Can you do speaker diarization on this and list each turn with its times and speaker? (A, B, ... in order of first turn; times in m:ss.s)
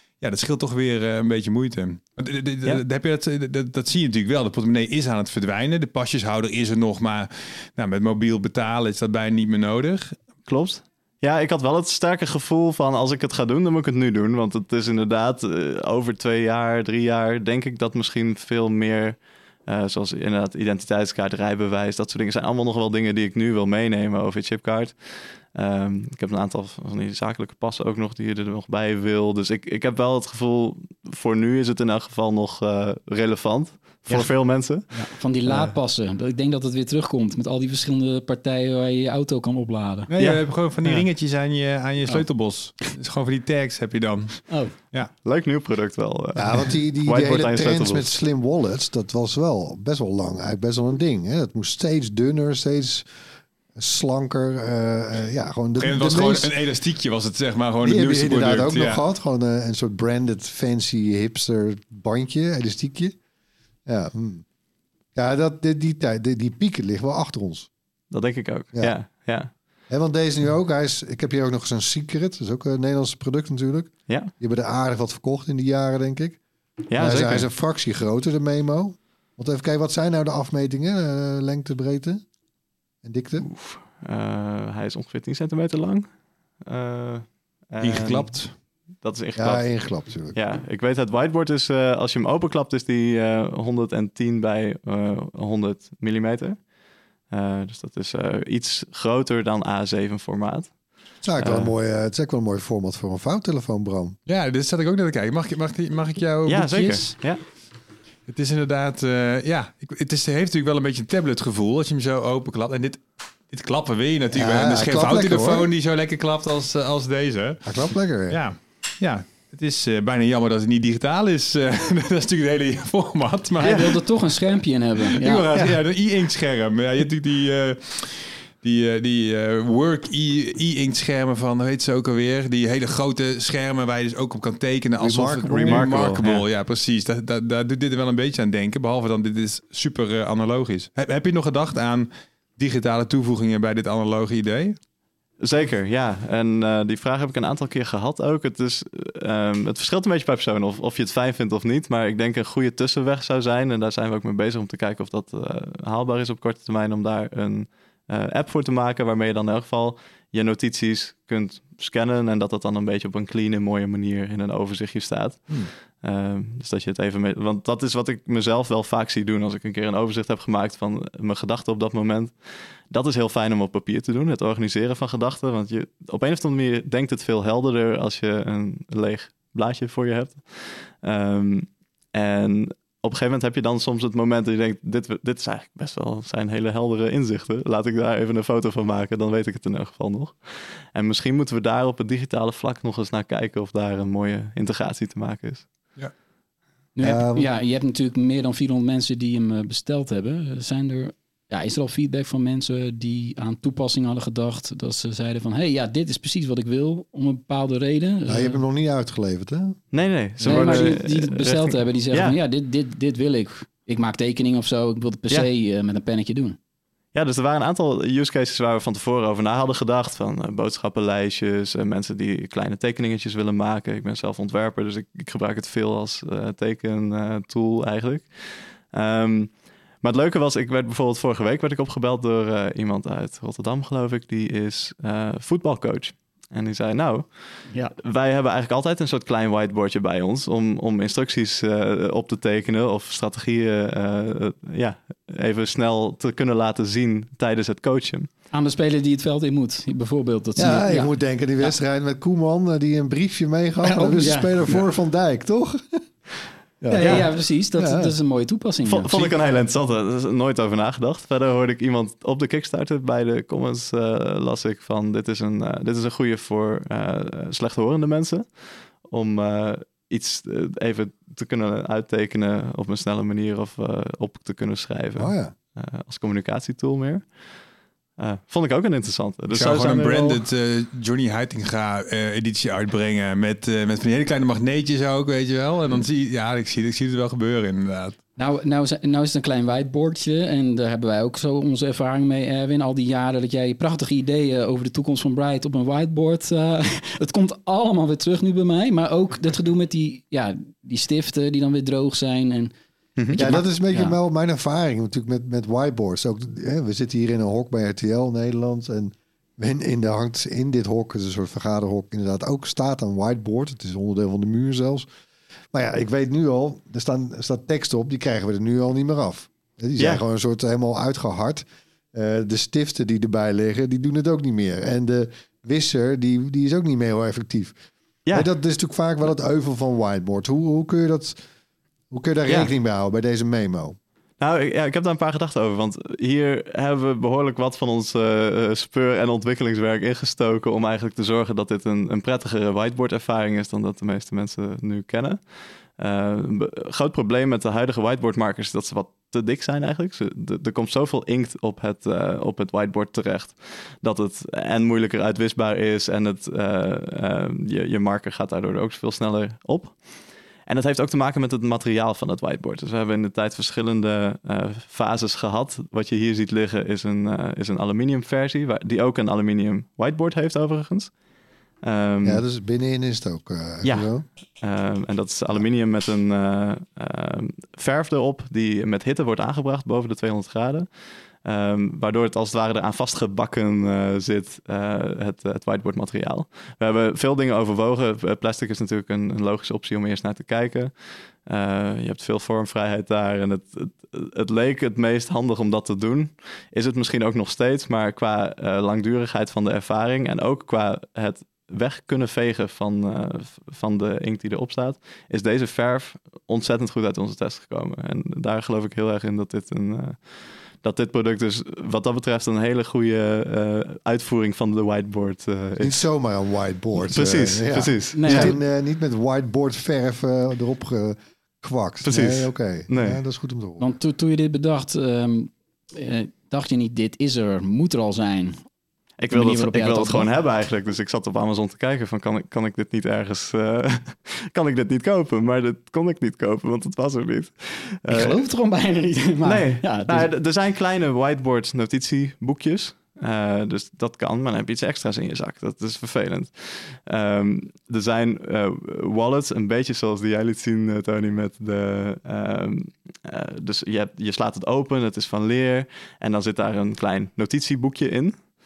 0:00.2-0:10.2 A
0:10.4-0:35.7 B
0:34.1-0:40.1 C
0:40.1-0:45.1 A
0:40.2-0:41.0 B
0:44.5-0:44.7 C
0:45.2-0:48.1 B
0:46.4-0:53.1 D
0:53.7-0:56.5 D
0:55.8-0:59.0 A
0:57.8-1:03.2 D
1:03.8-1:04.4 D
1:05.1-1:07.7 D
1:08.1-1:09.5 B
1:09.9-1:16.4 D
1:14.1-1:14.3 B
1:16.9-1:17.5 B
1:17.0-1:22.2 D
1:23.0-1:23.4 D
1:23.4-1:36.7 B
1:27.8-1:28.6 A
1:29.4-1:30.4 D
1:37.3-1:40.8 B
1:41.2-1:44.2 D
1:41.4-1:41.7 B
1:44.3-1:47.2 A
1:46.4-1:47.4 B
1:48.3-2:04.4 A
1:54.3-1:55.7 D
1:57.6-1:58.4 D
2:03.6-2:05.7 C
2:05.1-2:24.8 A
2:15.0-2:16.2 D
2:15.6-2:16.4 B
2:25.4-3:15.7 B
3:16.9-3:28.6 C
3:17.0-3:17.5 D
3:28.3-3:29.8 D
3:29.9-3:32.4 B
3:30.4-3:36.6 C
3:37.1-4:08.3 B
3:57.7-3:57.9 C
4:08.5-4:11.7 C
4:10.6-4:16.1 D
4:13.8-4:14.7 C
4:16.8-4:18.1 D
4:16.9-4:19.3 C
4:17.0-4:17.3 B
4:18.8-4:37.6 B
4:35.2-4:35.5 D
4:38.2-4:40.4 B
4:39.5-4:48.2 A
4:48.4-5:02.7 C
5:03.2-5:03.5 B
5:03.3-5:04.2 C
5:03.4-5:15.1 D
5:15.7-5:27.8 D
5:20.0-5:20.2 B
5:28.3-5:28.5 B
5:28.3-5:31.4 D
5:32.1-5:34.0 D
5:32.4-5:32.7 B
5:34.4-6:11.1 B
6:11.8-6:12.4 B
6:12.2-6:14.2 D
6:13.8-6:56.0 B
6:55.8-7:03.9 D
6:56.9-6:58.6 B
6:58.1-6:58.6 C
7:02.0-7:03.2 B
7:03.8-7:08.6 C
7:09.2-7:18.4 B
7:09.3-7:10.3 C
7:18.1-7:20.3 C
7:19.4-7:38.5 B